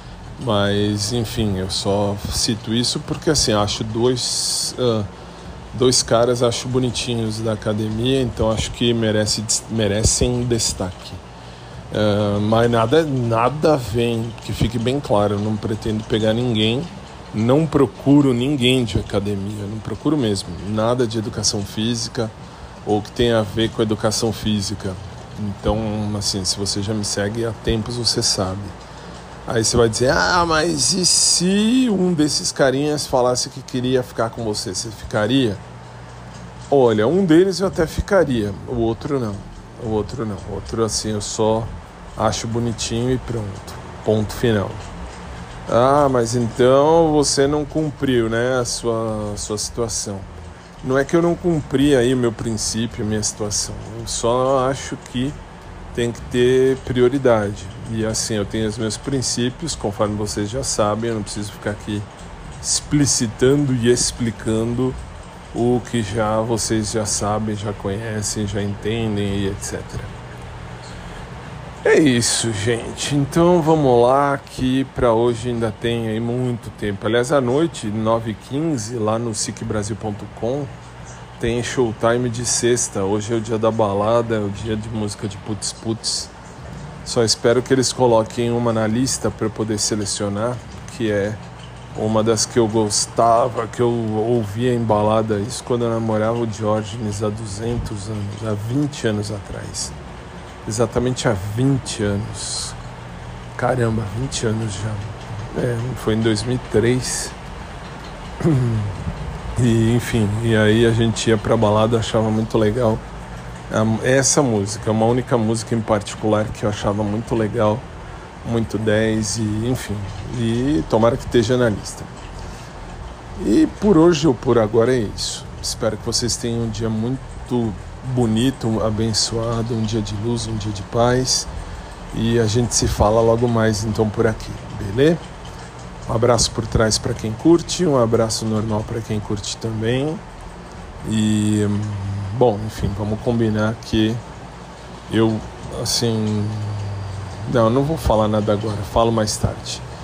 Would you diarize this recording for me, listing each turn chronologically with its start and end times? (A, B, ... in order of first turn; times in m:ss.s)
0:00.4-0:05.1 A
0:05.7-0:11.2 A
0:11.9-0:22.3 A
0:22.8-0:28.8 A
0:29.4-0:35.6 A
0:36.7-0:44.8 A
0:45.7-0:50.3 A
0:50.8-0:55.4 A
0:55.9-1:02.1 A
1:02.6-1:05.0 A
1:05.5-1:10.1 A
1:11.8-1:20.7 A
1:21.4-1:26.3 A
1:27.0-1:31.4 A
1:31.9-1:39.9 A
1:40.6-1:42.8 A
1:43.6-1:47.3 A
1:48.4-1:48.9 A
1:49.6-1:53.0 A
1:53.7-1:57.8 A
1:58.4-2:02.1 A
2:03.4-2:11.5 A
2:12.1-2:15.2 A
2:16.0-2:20.2 A
2:21.0-2:24.2 A
2:25.1-2:29.8 A